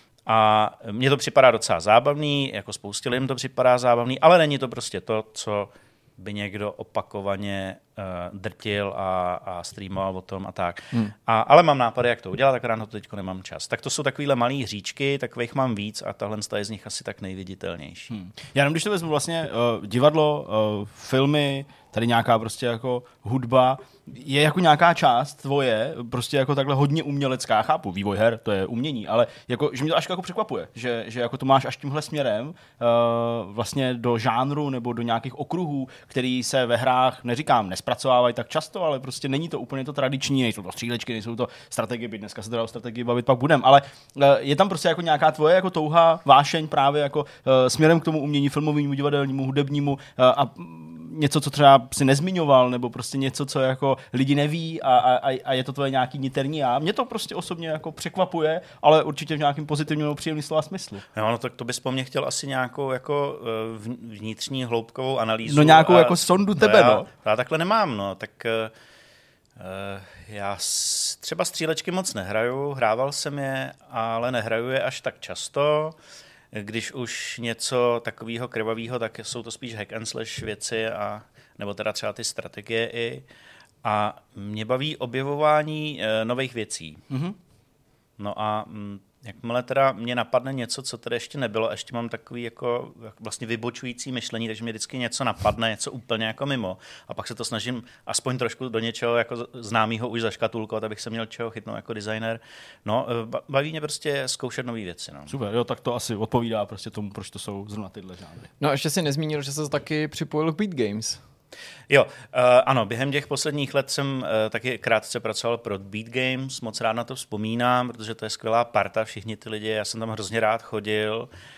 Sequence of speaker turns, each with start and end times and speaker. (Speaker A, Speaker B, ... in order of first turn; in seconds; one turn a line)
Speaker A: 0.3-18.1
Speaker B: 18.1-61.0
Speaker A: 61.1-68.7
Speaker B: 65.5-67.1
Speaker A: 69.6-76.0
Speaker A: 76.5-83.2
Speaker A: 83.8-87.0
Speaker B: 87.1-87.3
Speaker A: 88.2-105.3
Speaker B: 105.3-108.5
Speaker C: 108.6-111.2
Speaker A: 111.9-121.3